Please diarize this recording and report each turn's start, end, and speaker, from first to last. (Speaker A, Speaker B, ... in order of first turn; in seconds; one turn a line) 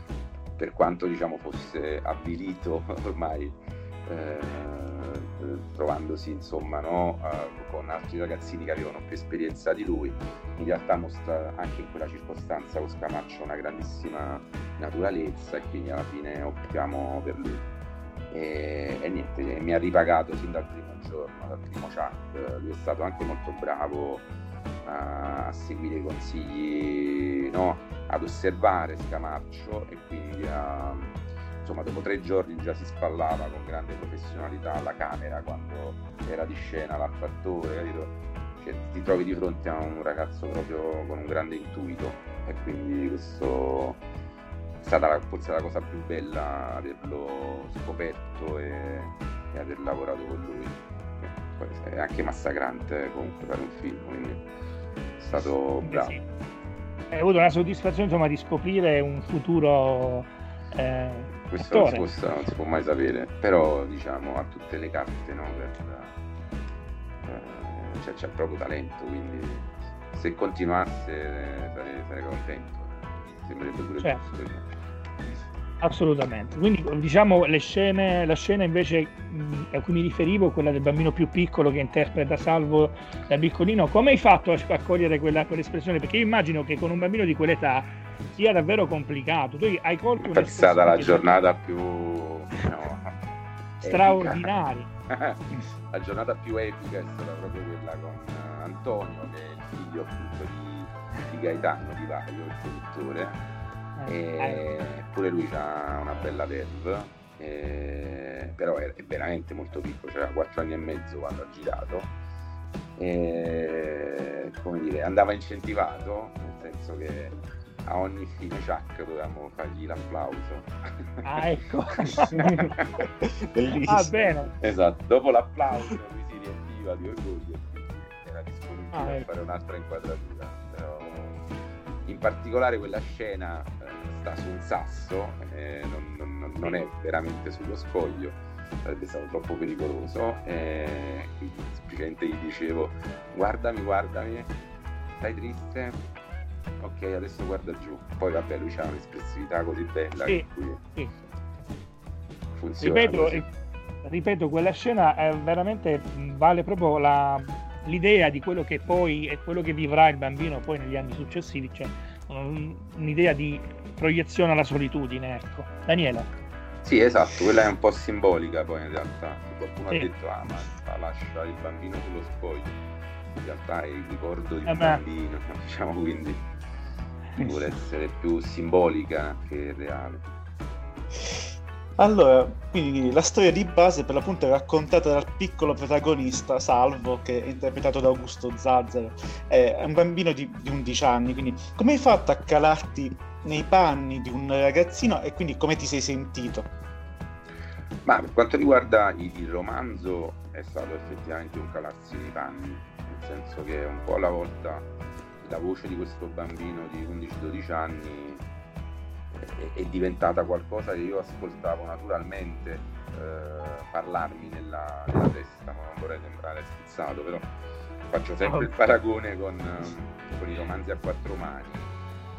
Speaker A: 0.6-17.6
Speaker A: 18.3-24.3
Speaker A: 24.9-44.0
Speaker A: 44.8-54.5
Speaker A: 55.2-56.2
Speaker B: 55.8-56.2
Speaker B: 57.1-62.0
Speaker A: 61.5-66.1
Speaker A: 67.2-74.7
Speaker B: 75.8-91.2
Speaker A: 90.2-93.2
Speaker A: 93.8-94.5
Speaker B: 93.8-94.9
Speaker A: 95.1-103.4
Speaker B: 104.0-104.6
Speaker A: 104.1-112.2
Speaker A: 113.0-120.7
Speaker B: 121.2-122.7
Speaker C: 122.2-122.5
Speaker A: 122.4-123.0
Speaker C: 123.2-124.3
Speaker B: 123.9-124.5
Speaker A: 124.6-131.4
Speaker B: 128.9-129.3
Speaker A: 132.0-144.5
Speaker A: 145.2-146.0
Speaker A: 146.8-150.8
Speaker B: 150.2-151.1
Speaker A: 152.5-153.5
Speaker B: 152.8-153.5
Speaker B: 154.1-166.3
Speaker A: 166.8-172.8
Speaker A: 173.3-176.5
Speaker B: 174.7-175.0
Speaker A: 177.4-180.2
Speaker C: 182.0-196.7
Speaker A: 198.0-204.9
Speaker A: 205.4-208.4
Speaker A: 209.3-217.5
Speaker A: 218.1-221.9
Speaker B: 218.4-218.7